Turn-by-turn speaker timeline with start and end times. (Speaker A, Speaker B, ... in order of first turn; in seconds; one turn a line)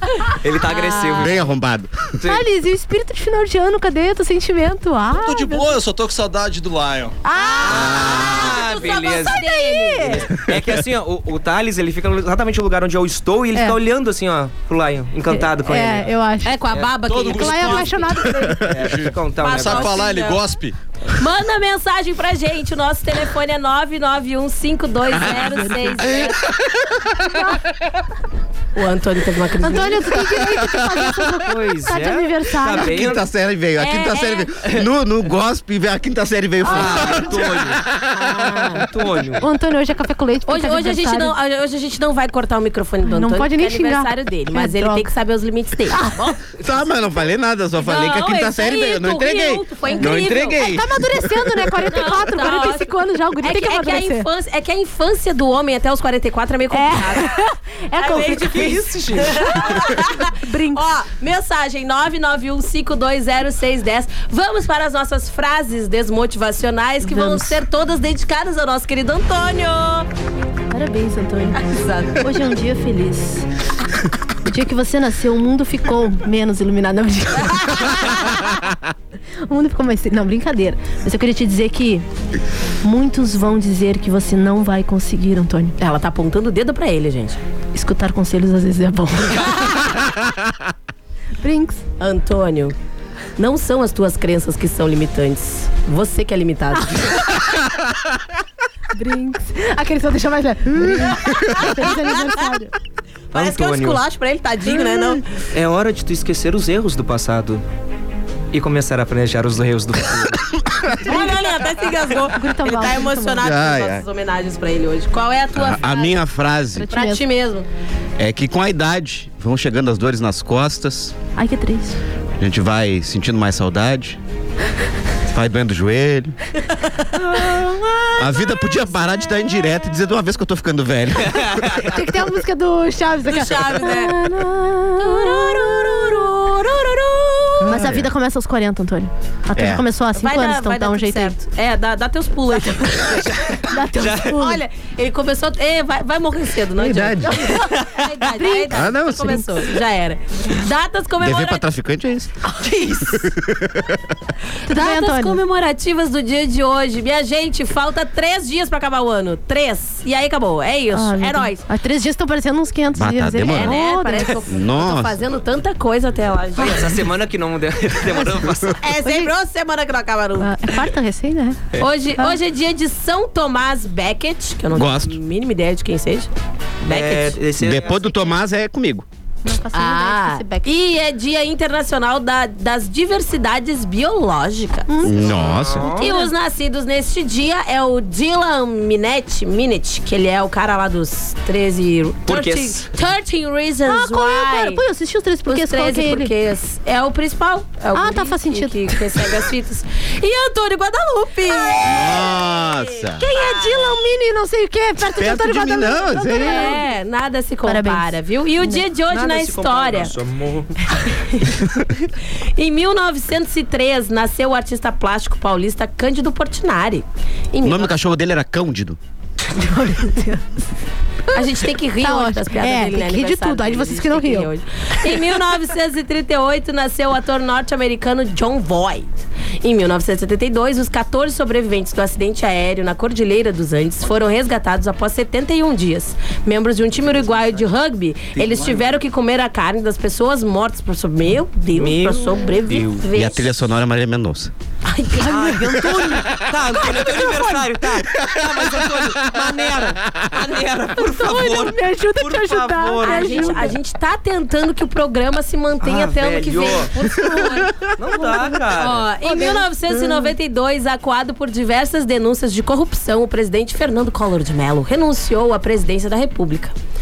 Speaker A: 0.4-1.5
Speaker B: 0.8-1.2
Speaker C: 1.2-2.0
Speaker A: 2.2-2.5
Speaker D: 2.3-5.8
Speaker E: 5.1-7.2
Speaker D: 7.2-10.3
Speaker B: 7.4-10.2
Speaker A: 7.7-9.4
Speaker A: 10.0-16.1
Speaker D: 15.3-16.5
Speaker B: 16.4-18.4
Speaker E: 17.0-17.9
Speaker D: 17.4-18.8
Speaker A: 18.6-20.1
Speaker E: 18.7-20.8
Speaker B: 19.4-20.4
Speaker B: 21.2-26.4
Speaker D: 25.3-26.2
Speaker B: 28.8-30.1
Speaker D: 29.6-33.1
Speaker A: 31.4-33.2
Speaker C: 32.8-38.5
Speaker B: 33.8-34.5
Speaker A: 36.6-37.8
Speaker B: 36.7-37.0
Speaker B: 38.1-38.9
Speaker A: 38.8-39.5
Speaker D: 39.4-41.4
Speaker B: 40.5-46.3
Speaker D: 43.0-45.1
Speaker D: 45.9-46.3
Speaker C: 46.6-51.7
Speaker B: 47.8-50.7
Speaker D: 50.0-54.3
Speaker B: 51.9-57.4
Speaker D: 56.7-59.8
Speaker B: 58.0-70.1
Speaker A: 58.5-59.3
Speaker D: 60.4-60.8
Speaker D: 67.0-67.6
Speaker D: 70.7-73.5
Speaker B: 71.6-72.2
Speaker D: 74.5-78.5
Speaker D: 79.5-82.0
Speaker D: 82.8-85.8
Speaker B: 85.8-87.4
Speaker D: 87.7-89.9
Speaker D: 91.4-91.8
Speaker B: 92.0-92.7
Speaker B: 93.4-97.1
Speaker D: 98.9-102.7
Speaker B: 103.3-105.2
Speaker A: 103.3-104.0
Speaker D: 104.7-105.2
Speaker A: 105.5-107.6
Speaker A: 108.5-110.5
Speaker B: 111.0-116.2
Speaker D: 111.0-111.4
Speaker D: 112.3-113.4
Speaker C: 113.4-114.0
Speaker C: 115.6-116.9
Speaker D: 116.8-117.2
Speaker B: 116.9-117.7
Speaker C: 118.2-121.2
Speaker D: 121.4-122.0
Speaker C: 122.4-124.2
Speaker C: 125.3-126.4
Speaker A: 127.2-128.2
Speaker C: 128.2-131.9
Speaker A: 131.3-131.8
Speaker D: 131.9-135.9
Speaker B: 133.3-134.2
Speaker B: 135.0-137.8
Speaker D: 137.6-141.3
Speaker C: 137.7-138.1
Speaker C: 139.6-139.8
Speaker B: 140.2-143.5
Speaker D: 143.6-144.6
Speaker A: 144.0-144.3
Speaker B: 144.1-151.7
Speaker C: 146.8-147.5
Speaker D: 148.3-149.4
Speaker C: 148.7-149.5
Speaker C: 151.2-152.4
Speaker C: 153.1-154.0
Speaker D: 154.7-155.4
Speaker B: 154.7-161.7
Speaker D: 160.9-164.4
Speaker C: 162.9-163.8
Speaker B: 163.5-167.0
Speaker C: 164.5-165.2
Speaker A: 166.6-168.8
Speaker D: 168.2-168.4
Speaker B: 168.8-170.5
Speaker D: 169.0-169.3
Speaker D: 170.4-171.6
Speaker B: 171.8-176.3
Speaker C: 174.7-175.2
Speaker B: 176.8-177.4
Speaker A: 176.9-178.2
Speaker C: 177.6-179.1
Speaker D: 179.4-180.7
Speaker B: 179.7-184.9
Speaker D: 184.9-185.4
Speaker C: 185.0-185.9
Speaker A: 185.2-186.1
Speaker B: 185.8-194.8
Speaker D: 186.0-186.3
Speaker A: 192.3-192.9
Speaker D: 193.8-196.3
Speaker B: 195.5-203.9
Speaker D: 197.9-199.3
Speaker C: 201.8-203.3
Speaker D: 203.2-206.8
Speaker C: 205.1-206.8
Speaker B: 206.3-210.1
Speaker D: 207.7-208.8
Speaker A: 209.1-210.8
Speaker B: 212.6-217.9
Speaker C: 217.6-219.0
Speaker D: 219.5-220.4
Speaker D: 221.3-224.5
Speaker B: 221.3-243.5
Speaker A: 238.4-238.9
Speaker A: 241.8-243.0
Speaker C: 243.1-244.5
Speaker B: 244.9-245.5
Speaker D: 245.2-247.8
Speaker A: 245.3-253.8
Speaker C: 248.3-249.4
Speaker D: 251.0-253.8
Speaker B: 253.0-257.7
Speaker A: 255.8-256.9
Speaker D: 257.1-257.6
Speaker A: 258.0-259.1
Speaker B: 258.7-266.7
Speaker D: 259.2-260.3